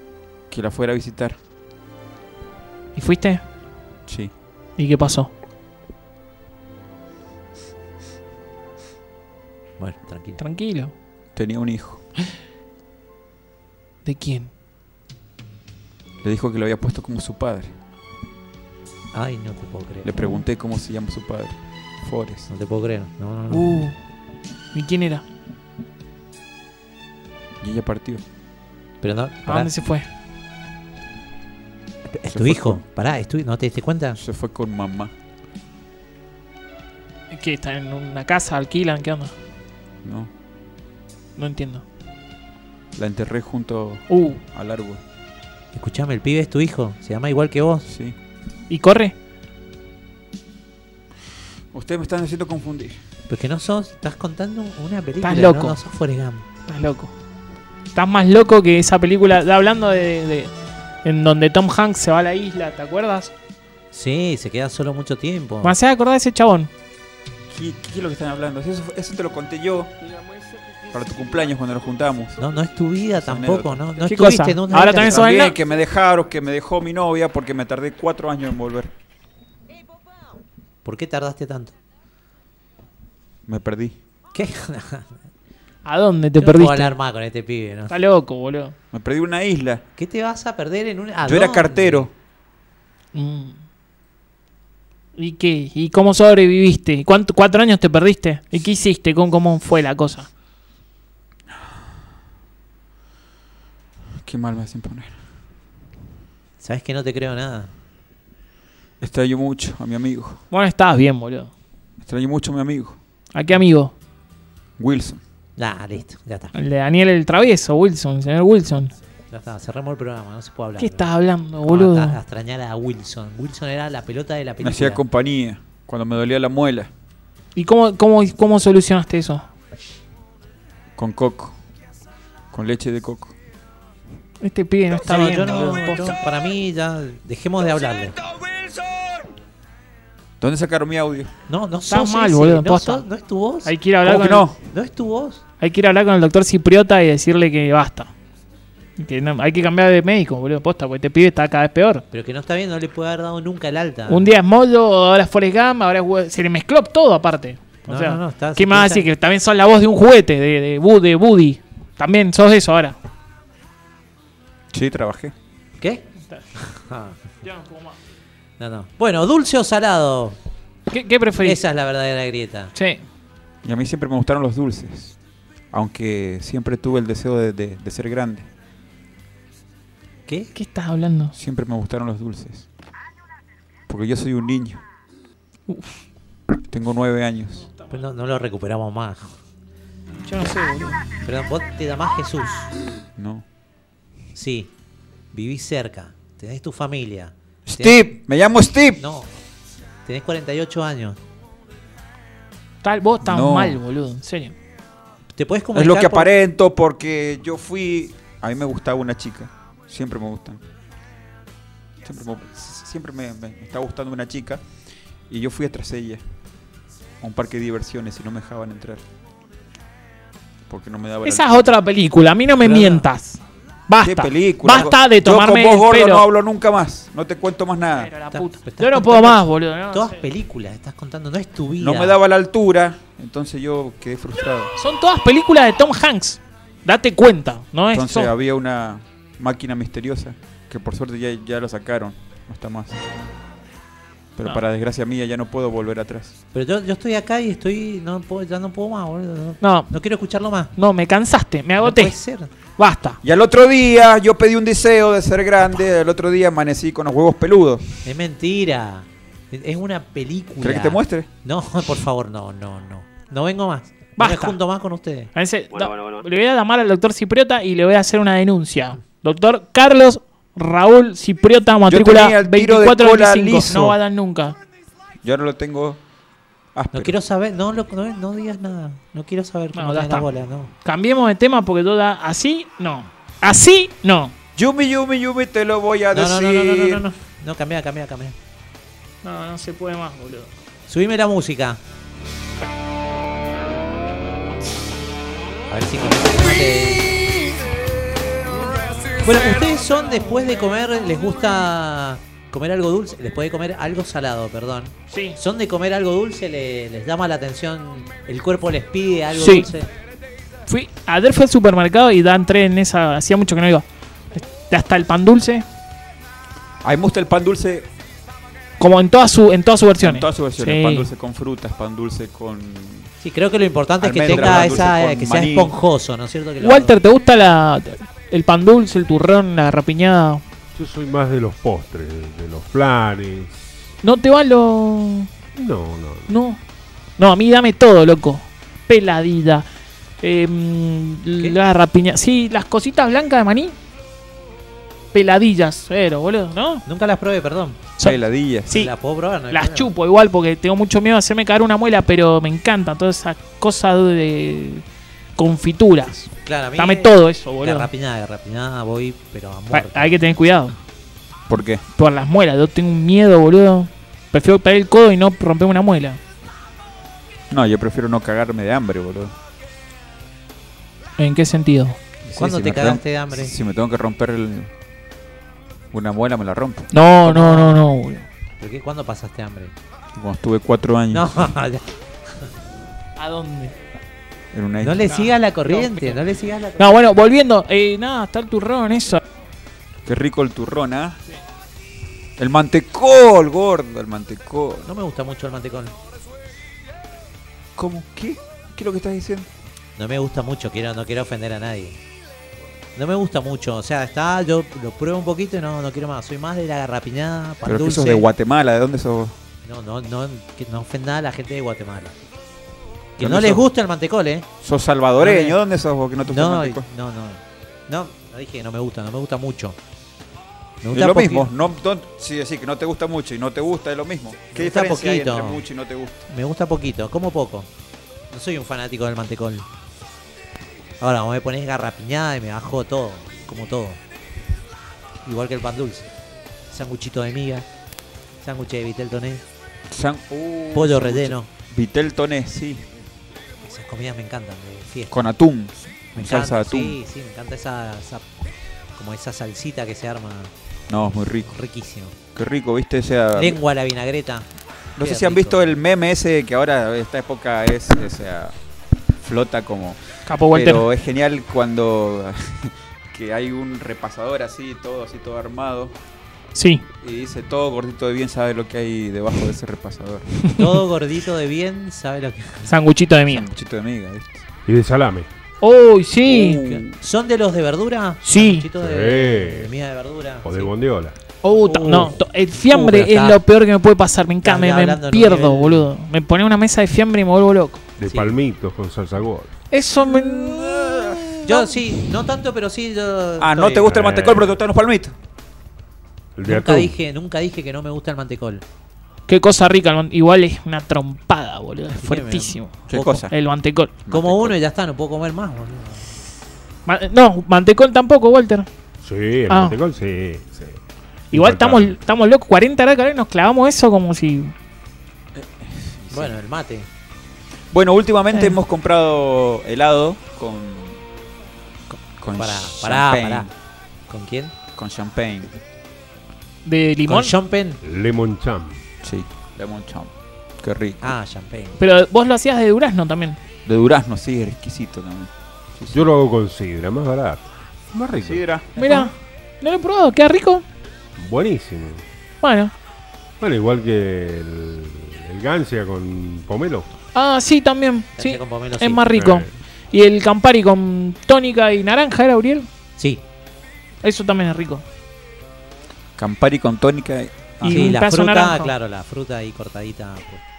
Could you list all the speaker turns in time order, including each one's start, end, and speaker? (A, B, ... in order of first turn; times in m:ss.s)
0:00.5-0:01.4 A
0:02.9-0:03.4 B
0:04.8-0:05.3 B
0:09.8-0:10.4 C
0:10.4-0:10.9 B
0:11.3-0:12.0 A
0:14.0-0:14.5 B
0:16.2-0:17.7 A
0:19.1-0:20.2 C
0:20.0-0:22.5 A
0:22.5-0:23.8 C
0:23.5-0:24.0 B
0:24.7-0:25.2 B
0:27.6-0:28.2 A
0:29.0-0:29.7 C
0:29.4-0:30.0 B
0:32.1-0:34.2 C
0:32.2-0:32.8 A
0:34.2-0:35.1 A
0:37.3-0:39.3 B
0:40.0-0:40.3 A
0:41.4-0:41.8 B
0:43.0-0:45.0 A
0:44.1-0:44.4 B
0:45.7-0:47.8 C
0:47.9-0:48.1 A
0:48.7-0:49.1 B
0:51.7-0:53.0 A
0:53.3-0:56.4 C
0:55.2-0:55.8 B
0:56.7-0:57.1 B
0:57.9-1:00.5 B
1:01.0-1:03.3 B
1:03.9-1:05.8 C
1:05.6-1:06.7 B
1:07.5-1:09.9 A
1:10.9-1:12.4 A
1:12.4-1:15.3 C
1:13.2-1:13.8 A
1:14.0-1:15.6 B
1:14.9-1:18.9 A
1:20.8-1:21.7 C
1:23.5-1:24.0 A
1:24.3-1:25.2 C
1:25.8-1:26.9 B
1:26.4-1:27.9 C
1:27.9-1:28.7 B
1:28.9-1:29.8 A
1:30.0-1:32.1 C
1:31.2-1:32.1 A
1:33.1-1:33.6 B
1:35.2-1:40.3 B
1:44.2-1:45.1 A
1:46.6-1:47.7 C
1:49.0-1:50.4 A
1:50.5-1:51.5 B
1:52.0-1:53.0 A
1:53.3-1:53.9 B
1:54.8-1:55.2 A
1:55.6-1:56.5 C
1:56.5-1:58.9 B
1:59.3-2:01.1 C
2:00.8-2:02.2 B
2:01.6-2:05.0 C
2:04.6-2:06.9 A
2:07.5-2:09.4 B
2:11.0-2:11.6 A
2:12.5-2:13.3 A
2:14.4-2:16.1 B
2:14.9-2:18.2 C
2:20.4-2:21.3 A
2:21.5-2:23.7 C
2:21.9-2:23.0 B
2:23.6-2:24.4 B
2:24.0-2:24.6 A
2:24.6-2:25.4 C
2:25.6-2:28.1 B
2:29.0-2:32.0 B
2:32.1-2:34.3 C
2:34.1-2:43.0 B
2:37.9-2:39.1 C
2:44.7-2:45.3 A
2:45.8-2:47.2 C
2:47.4-2:48.0 B
2:48.6-2:50.4 C
2:50.9-2:51.6 B
2:51.4-2:52.7 C
2:52.7-2:53.0 B
2:53.6-2:55.1 A
2:55.7-2:58.4 A
3:00.3-3:00.5 C
3:00.5-3:01.3 B
3:01.4-3:02.6 A
3:03.9-3:04.8 A
3:05.7-3:06.0 B
3:06.7-3:07.7 A
3:07.9-3:09.4 C
3:10.2-3:11.0 B
3:11.2-3:12.7 C
3:13.2-3:13.4 A
3:14.3-3:14.7 C
3:15.3-3:18.0 C
3:17.6-3:19.0 A
3:19.0-3:19.3 C
3:20.0-3:21.2 C
3:22.8-3:24.5 B
3:23.2-3:23.8 A
3:25.3-3:26.3 C
3:25.7-3:30.6 A
3:32.0-3:34.6 A
3:35.3-3:36.2 A
3:37.2-3:39.0 A
3:40.7-3:41.7 A
3:41.2-3:46.2 B
3:42.6-3:43.0 C
3:44.0-3:48.1 A
3:48.0-3:50.2 B
3:48.3-3:52.2 C
3:51.8-3:54.7 A
3:54.8-3:58.3 B
3:57.9-4:03.0 A
4:04.4-4:06.3 A
4:06.5-4:10.7 C
4:09.6-4:09.9 B
4:10.8-4:12.1 B
4:11.8-4:12.5 C
4:12.8-4:13.2 B
4:13.2-4:17.8 A
4:18.0-4:25.3 C
4:20.6-4:21.3 A
4:24.2-4:24.6 B
4:25.3-4:34.6 B
4:31.9-4:34.0 A
4:35.2-4:36.0 A
4:36.7-4:37.1 A
4:36.9-4:40.7 C
4:39.7-4:40.3 B
4:40.8-4:44.3 B
4:44.6-4:47.0 A
4:46.1-4:48.4 C
4:49.2-4:50.5 B
4:50.9-4:51.8 C
4:55.7-4:57.2 C
4:59.2-5:09.9 C
5:05.1-5:05.4 B
5:09.3-5:09.7 B
5:10.7-5:15.6 B
5:16.8-5:17.8 A
5:18.8-5:21.1 B
5:20.0-5:23.1 A
5:23.2-5:27.0 C
5:24.0-5:25.7 A
5:24.3-5:24.6 B
5:26.6-5:30.4 B
5:30.7-5:33.6 D
5:34.0-5:35.3 B
5:35.5-5:36.3 D
5:36.3-5:36.6 B
5:37.2-5:39.6 B
5:40.2-5:43.7 B
5:45.1-5:46.8 B
5:46.8-5:47.8 C
5:48.0-5:48.9 B
5:48.0-5:48.7 A
5:48.7-5:49.9 C
5:49.5-5:54.8 B
5:55.4-5:57.9 B
5:56.4-6:00.4 C
5:59.7-6:00.7 B
6:01.5-6:01.8 A
6:02.0-6:06.2 B
6:07.5-6:09.3 A
6:11.2-6:12.0 B
6:12.2-6:14.7 A
6:12.4-6:13.5 C
6:15.9-6:16.9 A
6:16.9-6:18.2 B
6:17.2-6:17.8 C
6:18.6-6:19.7 C
6:20.1-6:21.3 A
6:21.1-6:22.5 C
6:23.2-6:23.7 B
6:24.5-6:25.1 A
6:24.8-6:27.0 C
6:25.1-6:26.2 B
6:26.8-6:29.2 B
6:30.0-6:31.2 A
6:32.4-6:34.9 A
6:34.8-6:35.9 C
6:37.8-6:39.5 A
6:40.0-6:42.0 C
6:42.9-6:48.3 C
6:47.6-6:49.3 A
6:49.6-6:52.1 C
6:53.2-6:54.5 C
6:53.2-6:53.7 A
6:54.6-6:56.8 A
6:55.2-6:55.6 C
6:56.2-6:59.8 C
7:00.8-7:01.5 C
7:00.9-7:06.2 A
7:04.5-7:05.6 C
7:06.3-7:07.7 C
7:08.3-7:09.7 C
7:11.0-7:14.0 C
7:15.2-7:16.1 C
7:16.7-7:17.7 C
7:18.4-7:19.4 C
7:19.9-7:22.9 A
7:20.7-7:21.5 C
7:23.6-7:25.3 C
7:25.1-7:27.0 A
7:26.1-7:28.3 C
7:28.9-7:30.5 C
7:30.9-7:31.6 A
7:31.5-7:32.2 C
7:32.4-7:33.6 A
7:33.3-7:34.5 C
7:35.0-7:38.5 A
7:35.0-7:35.7 C
7:39.2-7:45.9 A
7:40.2-7:40.8 B
7:46.5-7:46.8 B
7:47.0-7:50.3 A
7:50.6-7:52.7 C
7:52.6-7:53.5 B
7:53.3-7:54.4 A
7:54.6-7:55.3 D
7:55.6-7:56.6 B
7:56.2-7:57.0 A
7:56.6-8:00.7 C
7:58.2-7:58.6 B
7:58.8-7:59.7 D
8:00.4-8:01.1 D
8:01.4-8:07.8 B
8:01.4-8:03.4 C
8:04.4-8:05.9 C
8:08.0-8:09.5 D
8:08.0-8:08.4 C
8:09.7-8:11.7 B
8:10.0-8:11.3 A
8:11.4-8:13.9 C
8:13.4-8:15.1 A
8:13.9-8:14.5 D
8:16.3-8:16.9 D
8:16.4-8:18.6 C
8:19.3-8:23.9 B
8:21.9-8:23.0 C
8:22.9-8:23.3 A
8:24.0-8:24.6 A
8:24.1-8:26.0 C
8:26.8-8:28.7 B
8:29.0-8:30.8 D
8:29.5-8:29.8 B
8:31.3-8:32.0 D
8:31.3-8:34.5 B
8:35.3-8:36.3 A
8:36.1-8:36.9 C
8:37.7-8:41.0 A
8:42.2-8:43.5 A
8:42.3-8:43.5 C
8:44.1-8:44.5 C
8:44.8-8:45.6 A
8:46.6-8:47.3 B
8:47.1-8:47.8 C
8:47.8-8:48.8 D
8:49.0-8:50.1 A
8:50.6-8:51.1 A
8:51.0-8:51.8 C
8:51.8-8:53.4 B
8:53.6-8:56.0 A
8:55.9-8:58.4 D
8:58.2-8:58.7 A
8:58.8-9:00.6 B
9:01.2-9:02.0 D
9:02.4-9:02.7 B
9:03.4-9:06.9 D
9:07.1-9:12.7 B
9:08.2-9:09.0 C
9:09.1-9:09.5 D
9:13.0-9:13.2 C
9:14.0-9:14.8 B
9:16.2-9:17.9 A
9:17.6-9:18.7 B
9:17.6-9:20.4 C